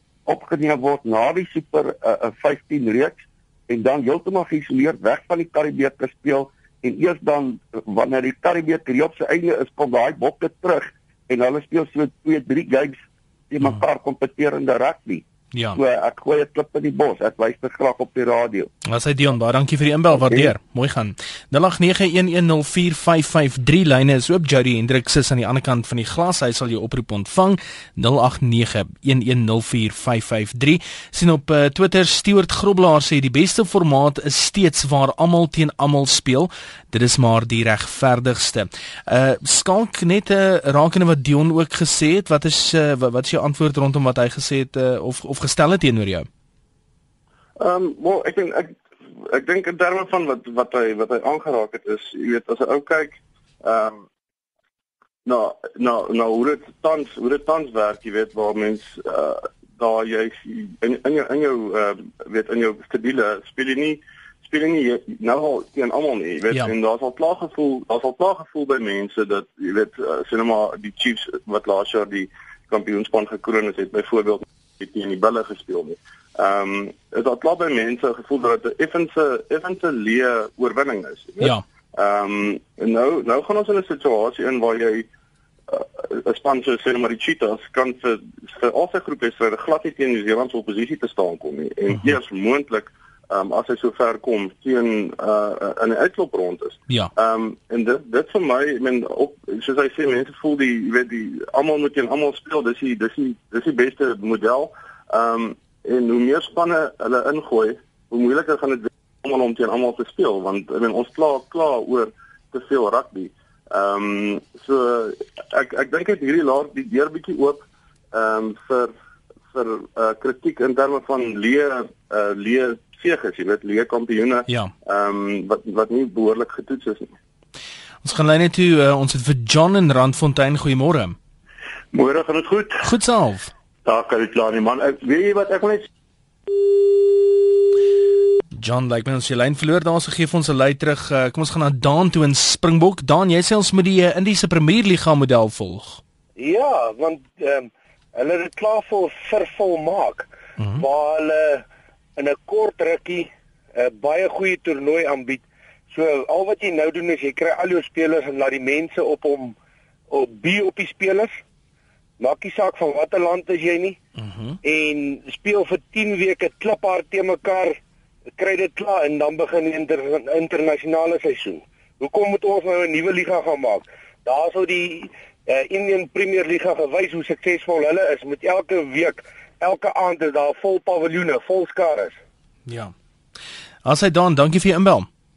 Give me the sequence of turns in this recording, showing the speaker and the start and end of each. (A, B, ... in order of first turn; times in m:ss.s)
0:00.3-0:15.2 A
0:15.5-0:15.8 B
0:15.7-0:18.7 A
0:18.8-0:46.3 B
0:20.2-0:20.5 A
0:47.6-0:48.7 C
0:49.2-0:54.0 C
0:55.2-1:25.1 C
1:25.7-1:58.9 C
1:59.5-2:07.1 C
2:08.0-2:11.2 B
2:11.9-2:12.9 D
2:12.8-2:13.5 B
2:13.8-2:15.9 D
2:18.6-2:26.0 B
2:26.4-2:31.6 E
2:32.2-2:39.5 E
2:40.1-2:41.4 E
2:42.2-2:44.0 E
2:44.2-2:44.6 B
2:44.6-2:47.8 E
2:48.4-3:02.2 E
3:02.7-3:02.9 B
3:03.8-3:05.1 B